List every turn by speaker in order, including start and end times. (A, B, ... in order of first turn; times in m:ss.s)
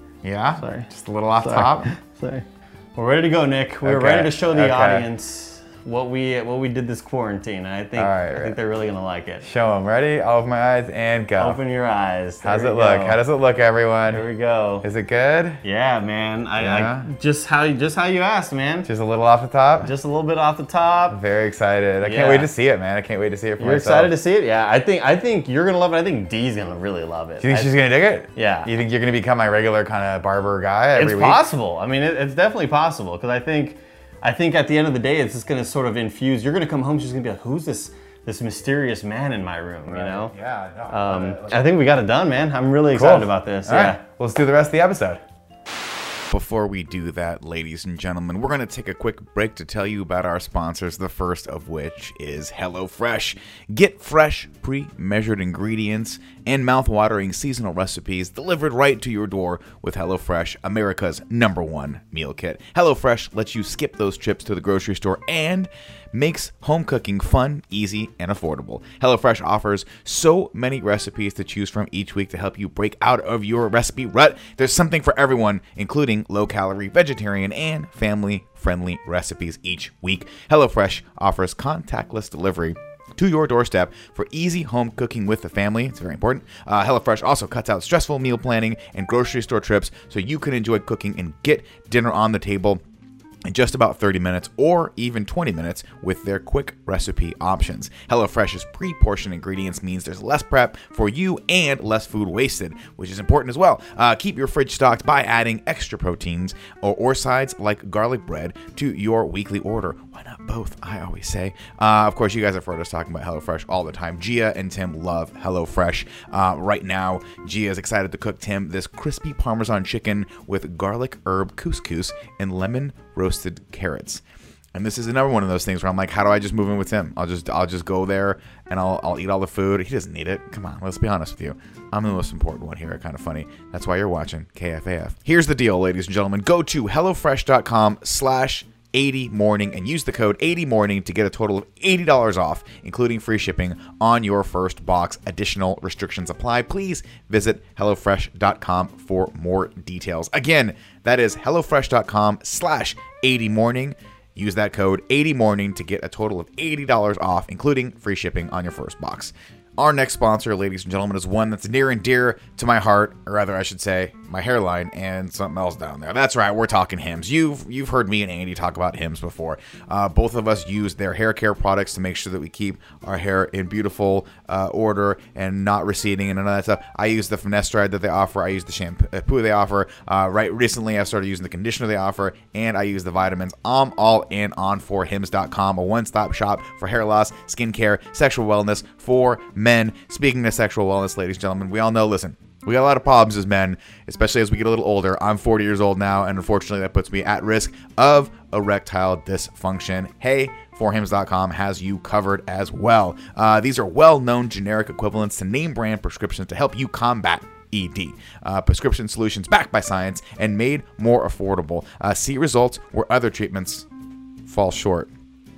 0:00.2-0:01.9 A
0:00.6-0:09.4 B
0:03.8-0:05.1 A
0:07.9-0:08.6 A
0:09.4-0:11.6 A
0:11.4-0:13.2 B
0:12.4-0:14.2 A
0:14.1-0:14.9 B
0:14.8-0:15.6 A
0:15.6-0:18.9 B
0:16.6-0:17.1 A
0:18.8-0:19.9 A
0:19.8-0:21.2 B
0:21.1-0:24.2 A
0:22.0-0:22.5 B
0:23.6-0:27.7 B
0:27.4-0:31.5 A
0:28.3-0:28.7 B
0:30.9-0:40.3 B
0:39.9-0:41.7 A
0:40.9-0:44.0 B
0:42.9-0:45.2 A
0:46.3-1:32.8 A
1:33.4-2:04.2 A
2:04.7-3:33.8 A
3:34.4-3:35.1 A